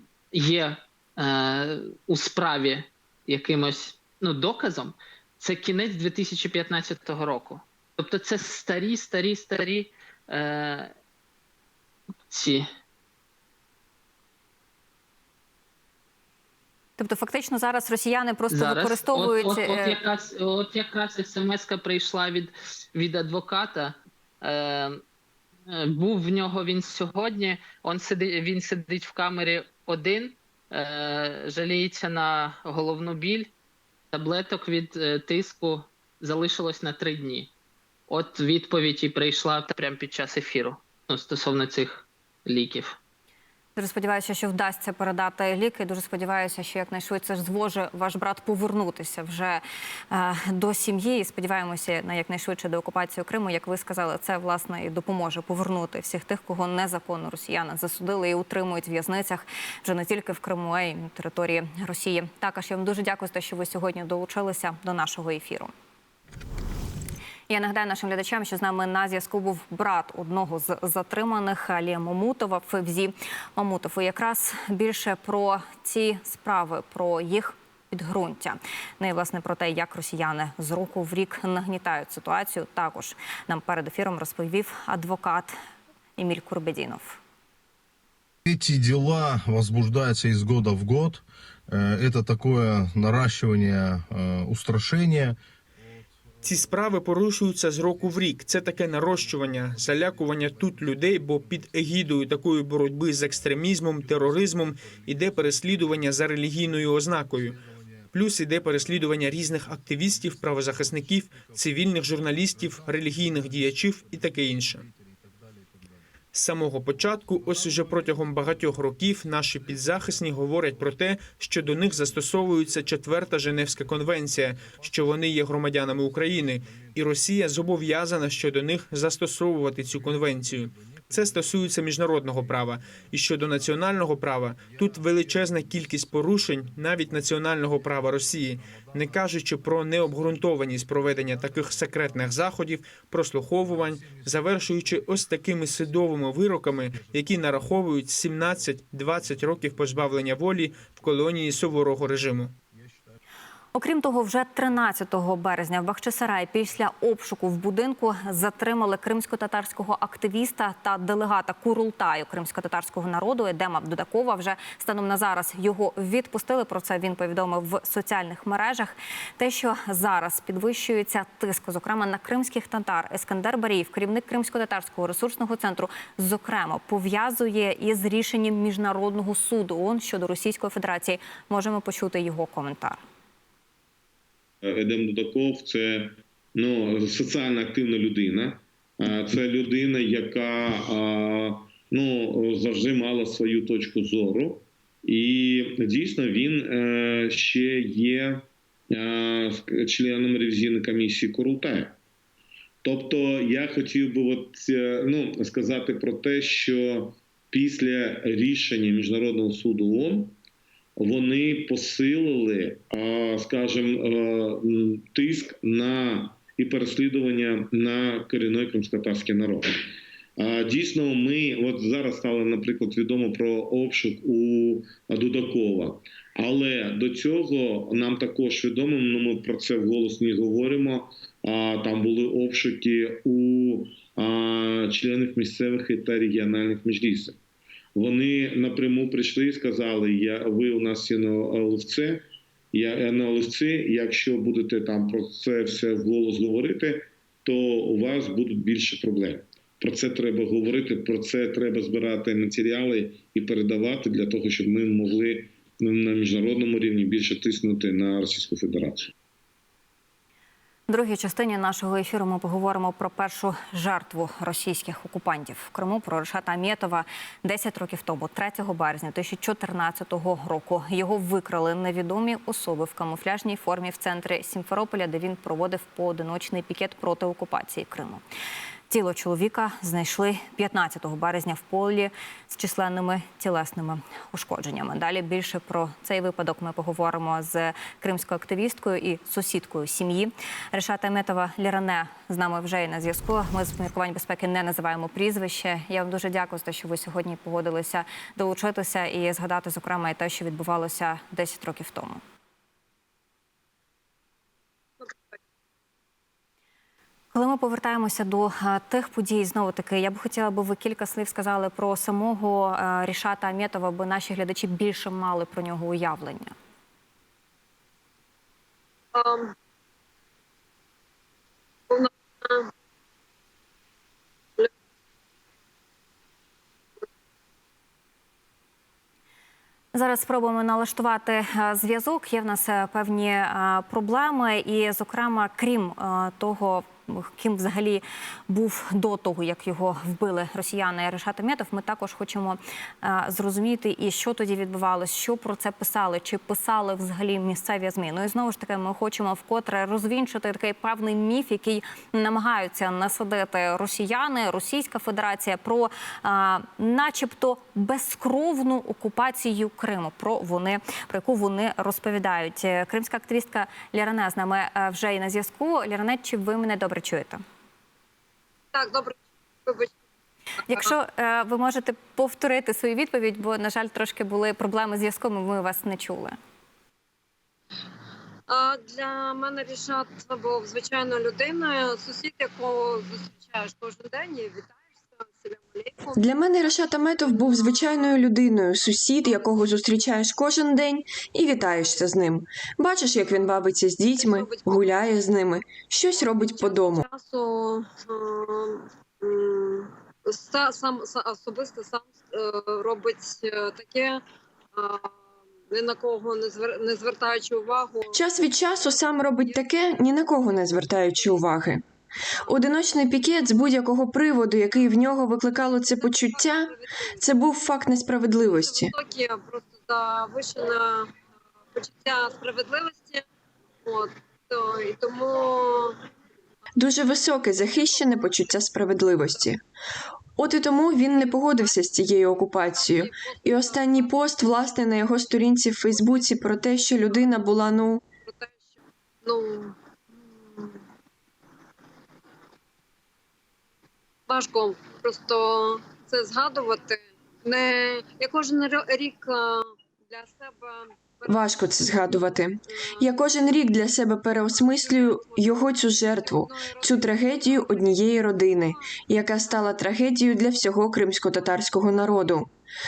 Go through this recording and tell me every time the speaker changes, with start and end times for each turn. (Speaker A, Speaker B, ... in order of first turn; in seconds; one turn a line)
Speaker A: 0.3-10.9
Speaker A: 12.3-12.7
Speaker B: 17.0-20.0
Speaker A: 18.5-25.0
Speaker A: 25.7-33.5
Speaker A: 34.1-37.5
Speaker A: 38.1-43.0
Speaker B: 43.8-65.7
Speaker B: 67.5-85.5
Speaker B: 86.2-87.2
Speaker C: 88.4-95.4
Speaker D: 96.4-107.6
Speaker C: 98.8-101.4
Speaker C: 103.2-106.1
Speaker C: 106.9-107.6
Speaker D: 108.1-114.8
Speaker C: 108.5-111.5
Speaker C: 112.4-115.6
Speaker D: 116.3-152.5
Speaker C: 117.8-118.7
Speaker C: 121.7-122.8
Speaker C: 123.5-124.0
Speaker C: 125.4-126.6
Speaker C: 129.9-133.9
Speaker C: 135.0-137.4
Speaker C: 138.0-138.4
Speaker C: 138.9-142.3
Speaker C: 143.6-147.7
Speaker C: 149.2-150.1
Speaker B: 153.7-183.0
Speaker E: 184.6-202.0
Speaker E: 202.8-210.3
Speaker E: 211.0-219.8
Speaker E: 220.4-237.4
Speaker E: 237.9-259.1
Speaker B: 260.9-278.2
Speaker B: 278.9-302.2
Speaker F: 305.0-305.4
Speaker B: 307.3-316.5
Speaker F: 319.1-319.5
Speaker F: 321.9-322.7
Speaker B: 329.9-367.4
Speaker F: 368.7-370.0
Speaker B: 370.7-376.4
Speaker F: 378.5-388.2
Speaker G: 386.1-397.0
Speaker F: 389.2-389.9
Speaker F: 391.3-392.1
Speaker F: 394.1-395.4
Speaker F: 396.1-404.2
Speaker F: 404.7-411.5
Speaker G: 408.1-411.8
Speaker F: 412.3-413.5
Speaker G: 412.4-418.9
Speaker F: 415.9-417.4
Speaker F: 418.5-421.1
Speaker F: 421.7-423.3
Speaker F: 423.8-426.0
Speaker G: 426.8-429.6
Speaker F: 426.8-429.5
Speaker G: 430.4-438.0
Speaker F: 431.2-434.8
Speaker F: 435.9-437.6
Speaker F: 438.2-440.8
Speaker F: 444.3-453.5
Speaker G: 451.3-462.5
Speaker F: 454.5-462.4